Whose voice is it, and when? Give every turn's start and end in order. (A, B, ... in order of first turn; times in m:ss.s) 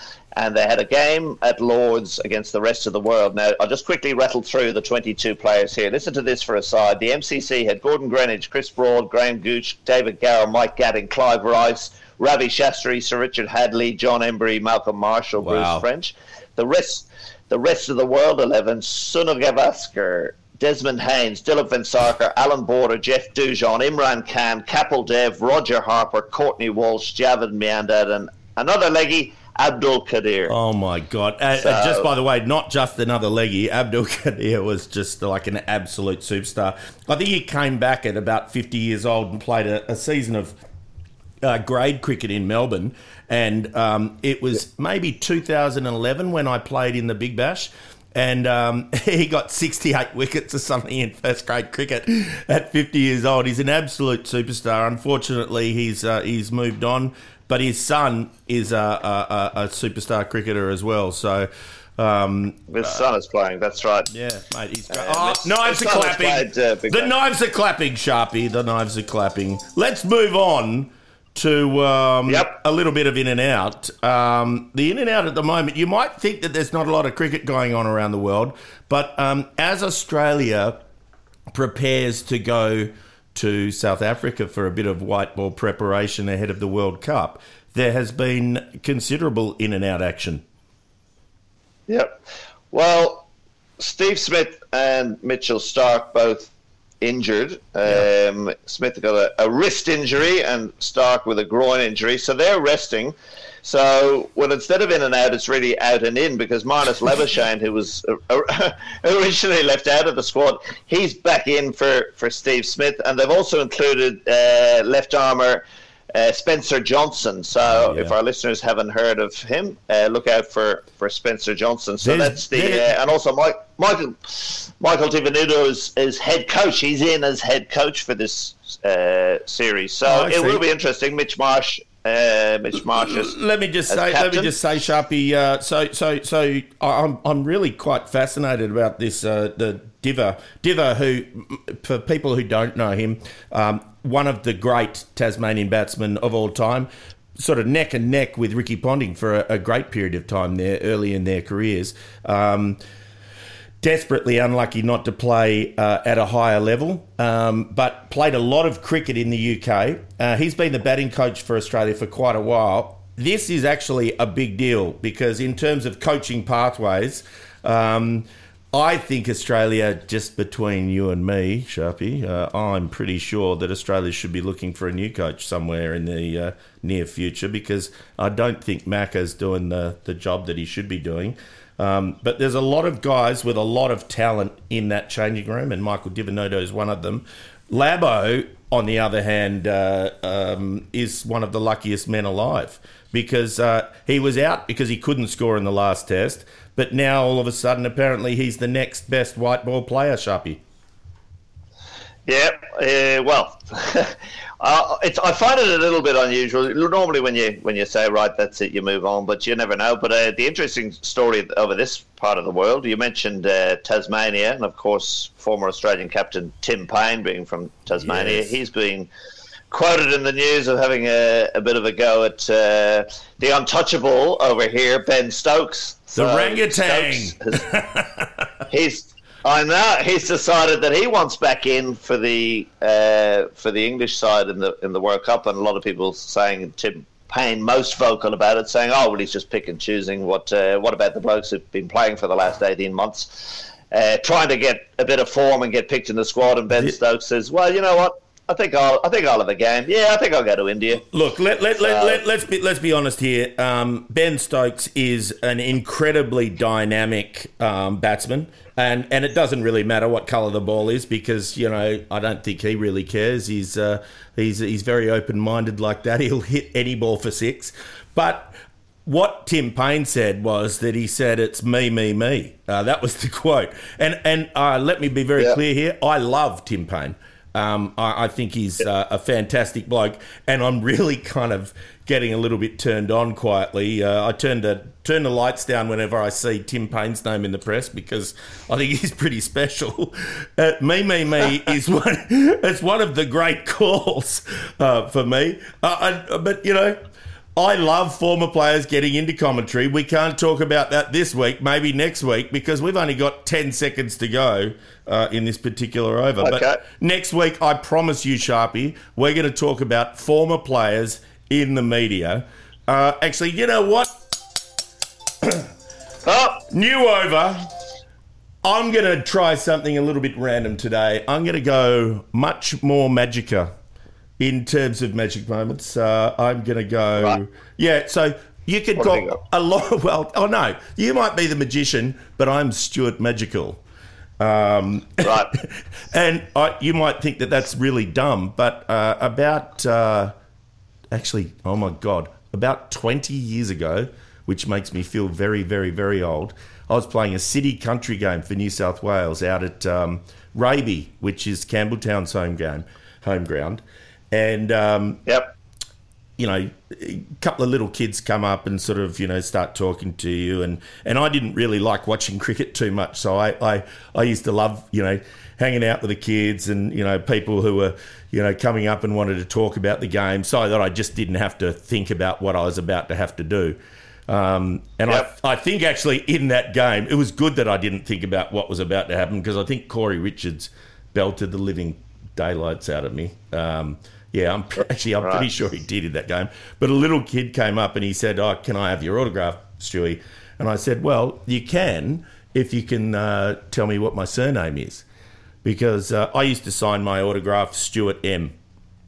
0:00.4-0:30.5 A
0:15.4-0:15.8 B
0:30.5-0:40.5 B
0:31.5-0:32.1 A
0:41.4-1:03.0 B
1:02.7-1:04.1 A
1:04.1-1:20.8 B
1:04.9-1:07.1 A
1:12.3-1:12.5 A
1:21.5-1:30.4 B
1:31.9-1:32.2 A
1:32.7-1:33.3 A
1:33.8-2:13.4 A
1:57.8-1:58.1 B
2:02.0-2:02.9 B
2:10.0-2:10.6 B
2:12.9-2:32.8 B
2:13.9-2:14.5 A
2:33.8-3:20.6 B
3:22.3-3:39.1 A
3:38.0-3:38.5 B
3:39.7-3:47.6 A
3:46.1-3:48.4 B
3:48.7-4:11.0 A
4:11.0-4:28.5 B
4:11.8-4:12.2 A
4:29.0-4:57.0 B
4:57.6-5:14.2 B
5:06.4-5:06.8 A
5:15.4-5:15.7 B
5:16.2-5:16.6 A
5:16.6-5:17.7 B
5:18.6-5:23.7 B
5:24.4-5:33.8 B
5:29.0-5:29.4 A
5:34.4-5:40.3 B
5:35.2-5:35.5 A
5:41.1-5:55.2 B
5:55.2-5:55.5 A
5:56.4-6:35.0 B
6:25.2-6:25.5 A
6:35.6-6:38.5 B